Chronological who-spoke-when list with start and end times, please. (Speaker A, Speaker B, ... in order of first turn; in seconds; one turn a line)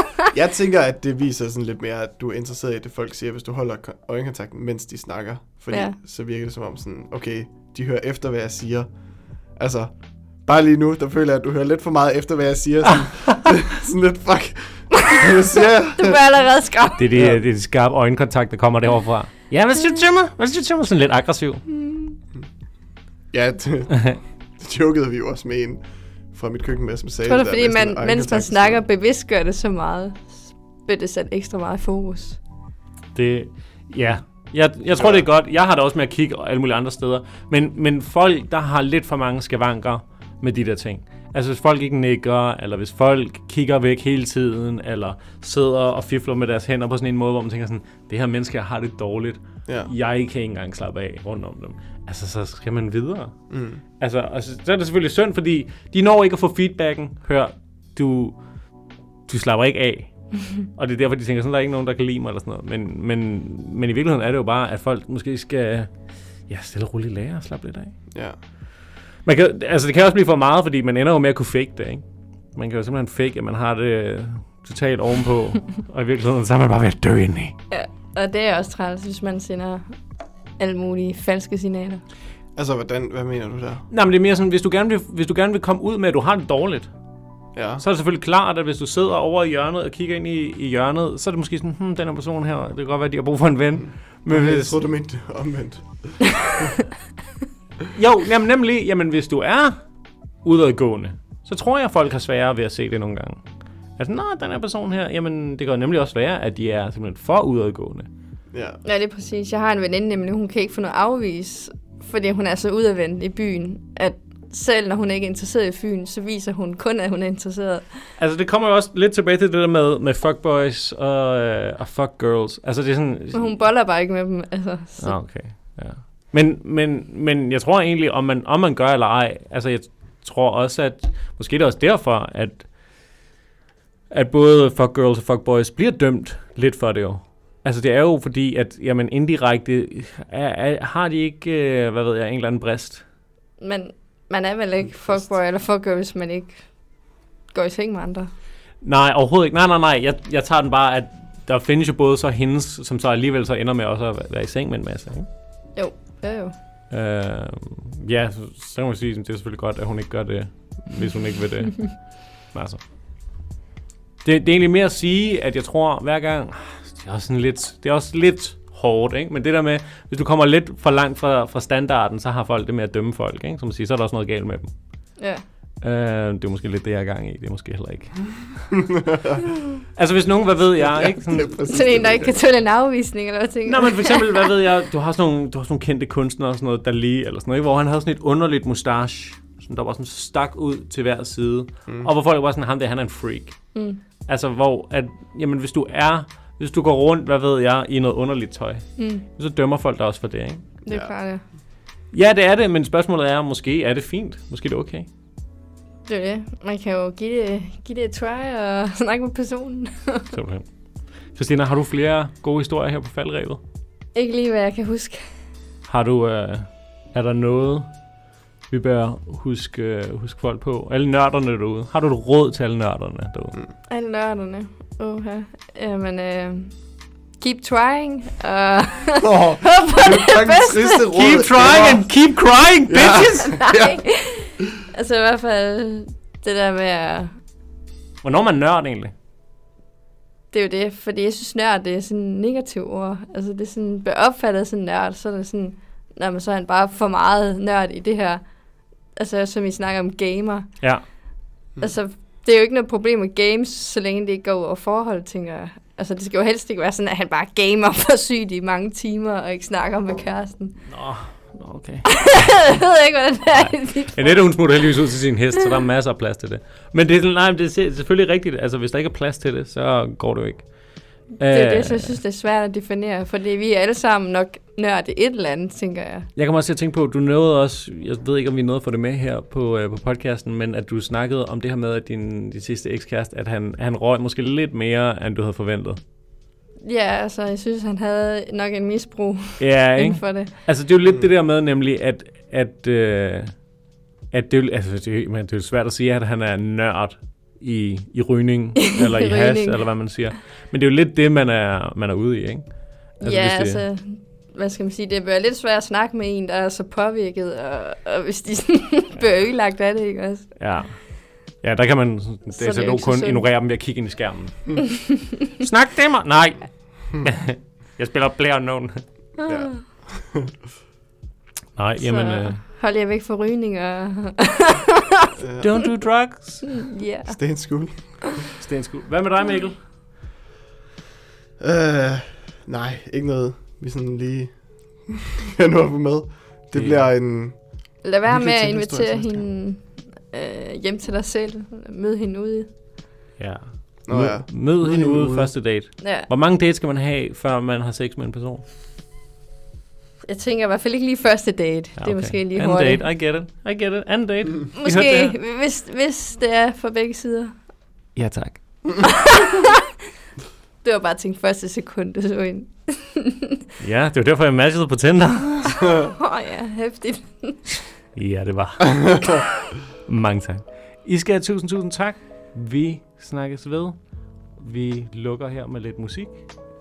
Speaker A: 0.3-8.9
Speaker A: 9.6-16.2
Speaker B: 14.9-15.3
Speaker B: 16.0-17.1
Speaker C: 17.0-21.6
Speaker A: 17.1-17.4
Speaker B: 21.7-22.2
Speaker A: 23.3-28.8
Speaker B: 27.3-32.4
Speaker C: 33.1-53.3
Speaker A: 34.9-35.3
Speaker A: 53.5-53.8
Speaker C: 54.0-58.4
Speaker C: 59.3-65.9
Speaker C: 66.5-67.9
Speaker A: 68.1-68.4
Speaker C: 69.2-72.0
Speaker C: 72.5-77.5
Speaker B: 77.7-79.9
Speaker B: 80.6-82.0
Speaker A: 82.6-83.8
Speaker C: 83.9-86.9
Speaker A: 87.5-87.8
Speaker C: 87.8-94.8
Speaker A: 94.3-96.7
Speaker C: 97.9-99.8
Speaker C: 100.4-103.4
Speaker C: 104.0-108.1
Speaker A: 108.5-108.8
Speaker B: 108.8-118.1
Speaker C: 118.2-123.6
Speaker B: 123.3-125.1
Speaker C: 125.0-132.7
Speaker C: 134.1-143.0
Speaker B: 143.6-146.6
Speaker B: 147.5-148.3
Speaker C: 148.8-155.3
Speaker B: 155.8-156.5
Speaker C: 156.9-162.8
Speaker C: 164.2-174.7
Speaker C: 175.8-178.6
Speaker A: 178.9-179.4
Speaker C: 180.0-181.6
Speaker A: 180.8-182.4
Speaker B: 181.7-184.4
Speaker C: 183.7-193.6
Speaker B: 193.8-194.0
Speaker C: 194.3-200.7
Speaker B: 199.0-199.2
Speaker B: 200.8-201.4
Speaker C: 202.1-205.1
Speaker B: 206.1-210.3
Speaker C: 210.3-210.7
Speaker C: 211.3-213.6
Speaker B: 214.2-215.2
Speaker C: 215.9-217.9
Speaker C: 218.7-223.6
Speaker B: 223.9-226.7
Speaker B: 227.4-231.1
Speaker A: 229.2-232.1
Speaker C: 231.0-233.6
Speaker A: 232.9-234.0
Speaker B: 233.4-237.3
Speaker C: 238.2-239.1
Speaker B: 240.5-248.4
Speaker B: 249.2-250.7
Speaker B: 251.8-260.8
Speaker C: 260.9-262.5
Speaker B: 262.1-264.6
Speaker C: 263.5-270.7
Speaker C: 271.4-272.2
Speaker B: 271.4-276.3
Speaker C: 276.4-286.0
Speaker B: 286.8-290.5
Speaker C: 289.6-293.5
Speaker C: 294.3-302.6
Speaker B: 298.8-299.8
Speaker C: 303.2-303.8
Speaker B: 303.2-310.5
Speaker C: 310.6-314.9
Speaker B: 312.6-313.4
Speaker C: 315.6-319.0
Speaker B: 319.4-319.8
Speaker A: 319.5-320.5
Speaker C: 321.8-322.6
Speaker B: 322.0-325.9
Speaker A: 325.4-325.8
Speaker C: 325.6-326.9
Speaker B: 326.6-327.4
Speaker A: 327.3-328.2
Speaker C: 328.6-329.8
Speaker A: 331.6-339.4
Speaker C: 336.7-337.1
Speaker B: 338.0-342.7
Speaker C: 343.4-348.6
Speaker A: 344.1-345.5
Speaker B: 346.0-346.3
Speaker B: 350.2-353.0
Speaker C: 352.0-355.4
Speaker B: 354.8-357.5
Speaker C: 358.2-359.0
Speaker B: 359.0-359.8
Speaker B: 360.8-363.6
Speaker C: 363.8-366.0
Speaker B: 365.9-367.8
Speaker C: 368.1-369.3
Speaker C: 370.1-374.0
Speaker C: 374.6-376.4